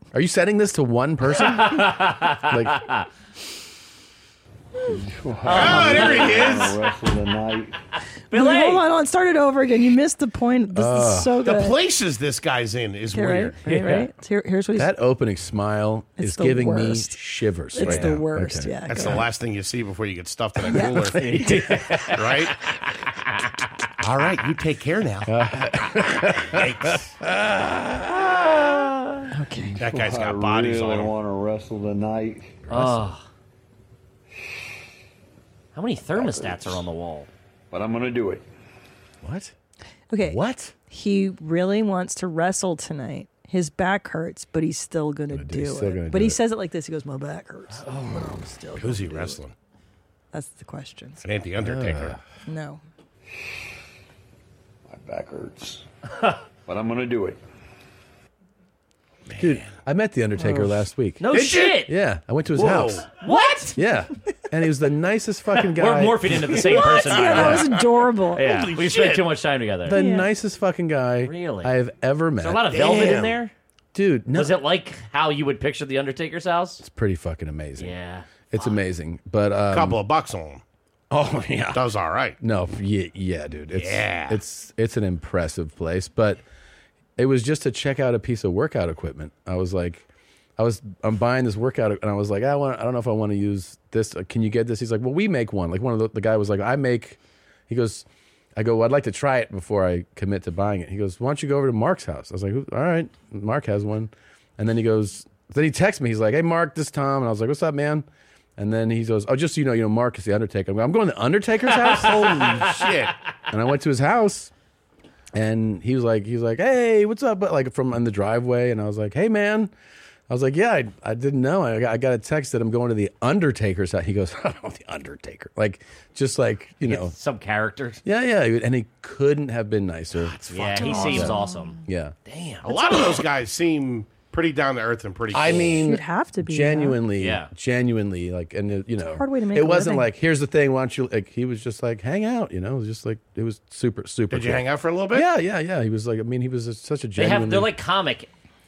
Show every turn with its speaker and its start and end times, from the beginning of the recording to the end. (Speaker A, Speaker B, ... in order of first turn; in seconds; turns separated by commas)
Speaker A: 0.1-1.9, Speaker B: 1.4-3.1, Speaker A: 2.5-2.8, Speaker C: 4.8-7.8, Speaker B: 5.5-6.6, Speaker D: 5.5-6.8, Speaker B: 8.3-8.8, Speaker E: 8.3-11.8, Speaker A: 10.7-11.4, Speaker D: 11.4-13.6, Speaker E: 13.1-14.9, Speaker B: 13.7-14.1, Speaker A: 14.8-18.8, Speaker E: 16.2-17.2, Speaker E: 17.7-19.2, Speaker D: 18.9-22.5, Speaker E: 20.7-21.1, Speaker A: 21.2-22.0, Speaker B: 21.2-22.5, Speaker D: 24.0-25.3, Speaker A: 25.3-28.9, Speaker D: 26.4-27.1, Speaker E: 29.3-29.8, Speaker C: 29.8-32.6, Speaker D: 29.8-31.2, Speaker A: 32.7-33.0, Speaker B: 32.7-33.2, Speaker B: 35.8-37.3, Speaker C: 37.7-38.4, Speaker A: 39.2-39.5, Speaker E: 40.1-40.4, Speaker A: 40.2-40.7, Speaker E: 40.9-49.4, Speaker A: 45.3-46.4, Speaker D: 48.8-49.5, Speaker E: 50.3-51.2, Speaker D: 51.2-52.2, Speaker A: 51.6-52.2, Speaker E: 52.5-52.8, Speaker C: 54.9-55.9, Speaker C: 56.7-57.4, Speaker D: 59.3-59.7, Speaker A: 59.4-61.3, Speaker B: 61.2-61.9, Speaker D: 61.3-61.9, Speaker A: 61.9-63.1, Speaker D: 62.5-63.1, Speaker B: 63.2-63.8, Speaker A: 63.8-66.5, Speaker B: 65.6-67.7, Speaker E: 66.6-68.5, Speaker D: 66.7-69.3, Speaker B: 68.3-70.0, Speaker A: 69.9-73.3, Speaker E: 69.9-70.3, Speaker B: 71.2-71.7, Speaker B: 72.4-73.5, Speaker D: 72.7-73.4, Speaker A: 73.9-74.7, Speaker B: 74.3-76.8, Speaker A: 76.8-77.9, Speaker B: 77.8-78.4, Speaker A: 78.5-80.0, Speaker D: 79.7-80.6, Speaker A: 81.1-81.8, Speaker D: 81.7-82.4, Speaker A: 82.4-86.4, Speaker D: 83.7-84.4, Speaker A: 87.2-90.1, Speaker A: 90.6-108.1, Speaker A: 108.6-112.8, Speaker B: 111.8-112.9, Speaker D: 111.8-113.1, Speaker A: 113.5-114.5, Speaker A: 115.3-119.7, Speaker A: 120.3-127.2, Speaker B: 126.8-128.0, Speaker A: 128.0-132.2, Speaker D: 130.4-131.2, Speaker B: 130.5-133.1, Speaker E: 130.9-131.6, Speaker D: 132.6-135.9, Speaker A: 135.3-147.7, Speaker E: 135.8-137.0, Speaker B: 137.2-137.5, Speaker E: 139.0-140.1, Speaker D: 144.3-145.3, Speaker B: 147.2-148.3